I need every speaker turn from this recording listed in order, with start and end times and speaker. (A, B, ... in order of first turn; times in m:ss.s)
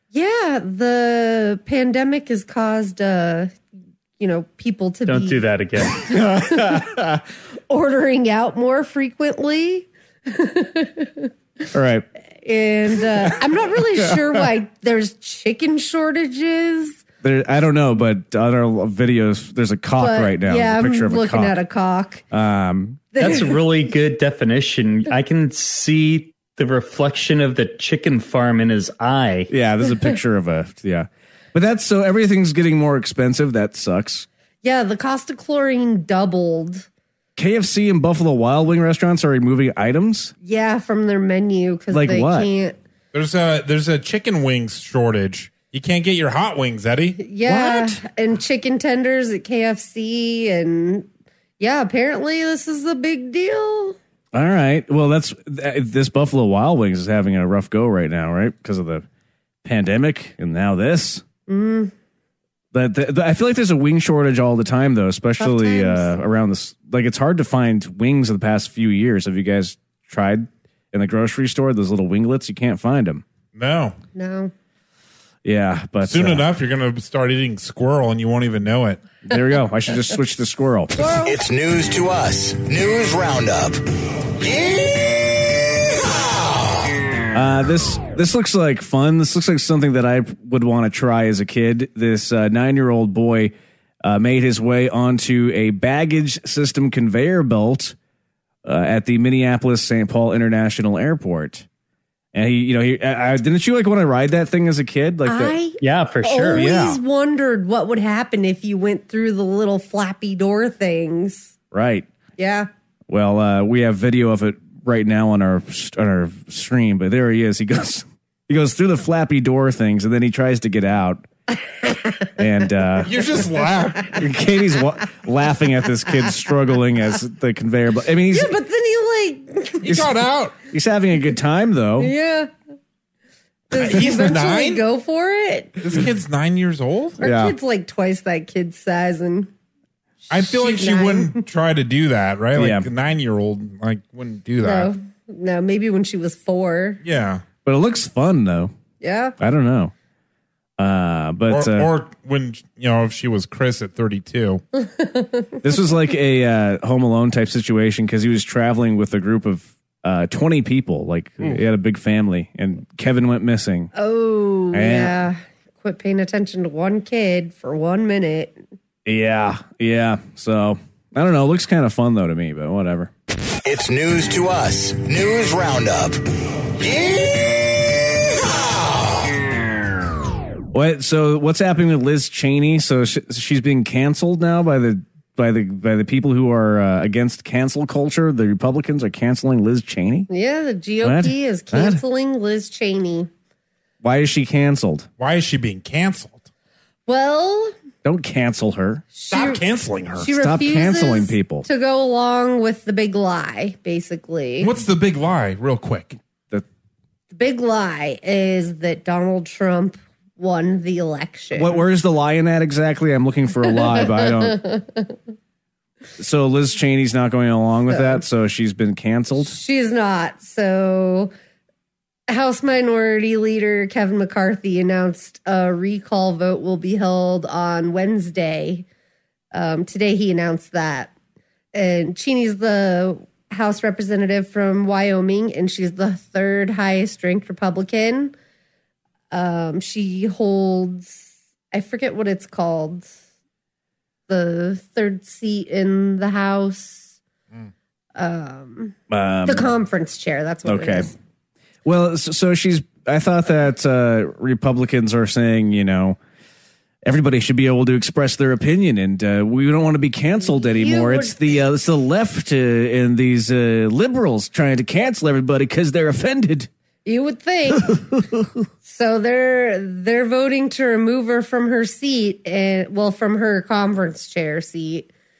0:00.1-0:03.6 A
0:04.2-0:05.4 A
0:05.0-0:06.0 B
0:06.1-0:07.0 A
0:06.1-0:07.2 C
0:07.7-0:11.3 A
0:11.7-0:12.0 C
0:12.4-0:17.0 A
0:17.2-0:21.6 C
0:20.0-0:22.2 A
0:22.3-0:23.0 C
0:23.1-0:23.6 A
0:23.2-0:29.5 B
0:29.5-0:34.3 C
0:34.6-0:36.9 A
0:37.4-0:40.3 C
0:40.4-0:42.8 A
0:41.9-0:42.5 C
0:43.1-0:47.2 D
0:47.2-0:51.1 A
0:47.4-0:48.0 C
0:51.6-0:54.0 A
0:54.3-0:59.0 C
0:59.6-1:01.2 C
1:01.5-1:01.9 A
1:02.7-1:13.2 C
1:05.4-1:06.1 A
1:13.5-1:13.9 D
1:14.1-1:14.5 A
1:15.4-1:16.4 C
1:16.0-1:19.0 D
1:19.2-1:21.2 C
1:21.0-1:21.4 A
1:21.2-1:23.8 E
1:24.4-1:25.3 E
1:27.3-1:33.5 C
1:34.0-1:37.9 C
1:38.6-1:41.6 C
1:42.3-1:45.6 C
1:45.2-1:51.5 A
1:45.8-1:46.7 B
1:46.5-1:47.0 C
1:51.7-1:52.1 C
1:52.4-1:52.7 A
1:53.1-2:01.2 C
2:02.4-2:03.2 C
2:03.0-2:04.2 D
2:04.1-2:08.5 C
2:08.3-2:10.0 A
2:09.8-2:10.5 D
2:09.9-2:12.1 C
2:12.0-2:12.5 A
2:13.7-2:15.8 A
2:13.7-2:14.8 D
2:15.8-2:17.2 D
2:17.2-2:19.5 A
2:17.2-2:17.5 C
2:20.3-2:21.4 A
2:20.3-2:24.9 D
2:22.5-2:22.9 C
2:24.6-2:27.0 A
2:27.0-2:27.4 D
2:27.6-2:28.7 C
2:29.0-2:29.4 A
2:29.4-2:29.9 C
2:30.8-2:31.9 C
2:31.5-2:34.6 D
2:34.8-2:35.6 A
2:35.6-2:43.9 C
2:43.9-2:48.6 A
2:44.7-2:45.2 C
2:49.0-2:53.1 C
2:53.6-2:56.2 E
2:56.8-2:57.6 E
3:00.7-3:10.3 C
3:10.3-3:13.3 A
3:11.0-3:12.0 C
3:14.0-3:15.1 C
3:15.2-3:16.4 D
3:17.1-3:17.7 A
3:18.0-3:19.0 C
3:19.1-3:19.6 A
3:19.3-3:20.3 D
3:20.2-3:24.7 A
3:20.3-3:21.7 C
3:24.6-3:26.2 D
3:27.3-3:31.8 A
3:31.5-3:34.6 C
3:33.6-3:35.2 A
3:36.2-3:39.6 C
3:37.9-3:38.2 A
3:39.4-3:41.3 A
3:42.3-3:48.8 A
3:49.5-3:51.1 A
3:51.7-3:58.3 A
3:59.3-4:03.1 A
4:04.3-4:07.2 A
4:08.1-4:11.1 A
4:09.1-4:09.7 C
4:10.6-4:11.1 C
4:11.8-4:16.2 C
4:17.0-4:26.7 C
4:20.4-4:21.6 A
4:27.0-4:28.0 A
4:28.2-4:28.5 C
4:28.8-4:35.1 A